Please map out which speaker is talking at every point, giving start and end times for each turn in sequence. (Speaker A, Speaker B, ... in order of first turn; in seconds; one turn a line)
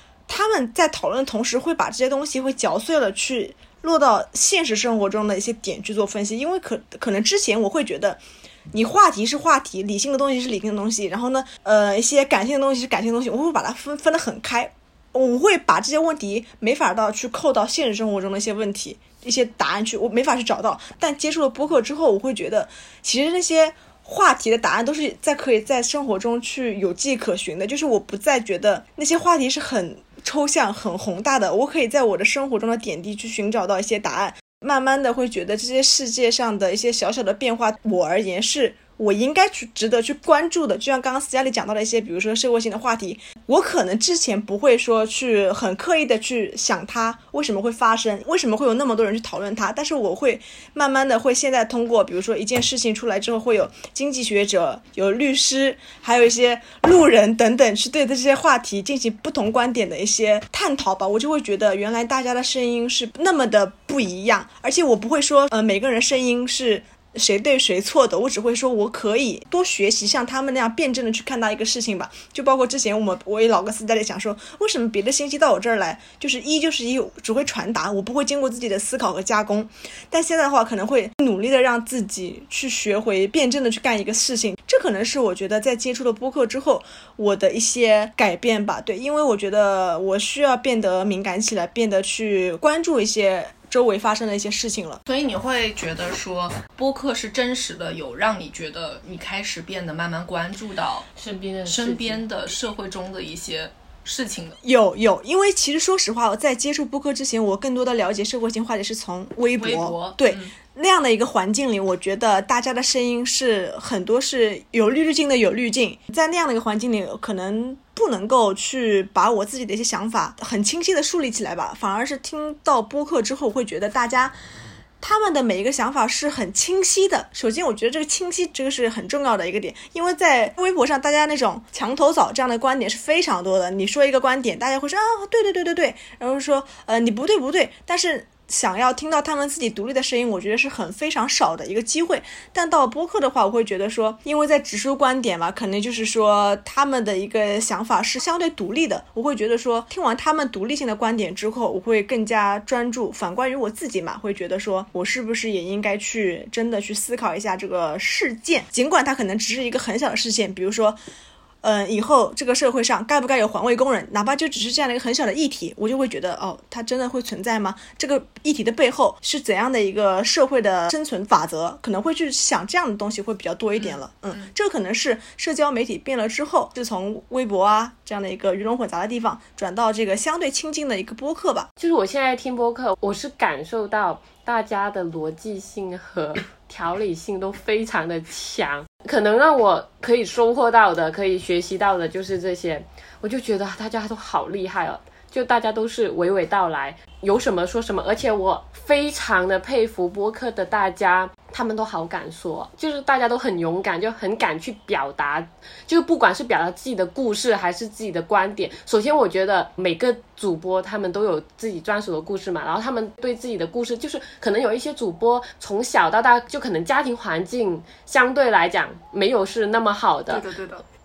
Speaker A: 0.3-8.2
Speaker A: 8.7-95.0
Speaker B: 95.1-101.1
Speaker C: 101.2-102.2
Speaker B: 101.7-104.6
Speaker A: 104.6-124.3
Speaker B: 109.6-110.5
Speaker A: 125.0-161.0
Speaker A: 161.6-181.7
Speaker C: 181.8-220.5
Speaker B: 220.3-220.8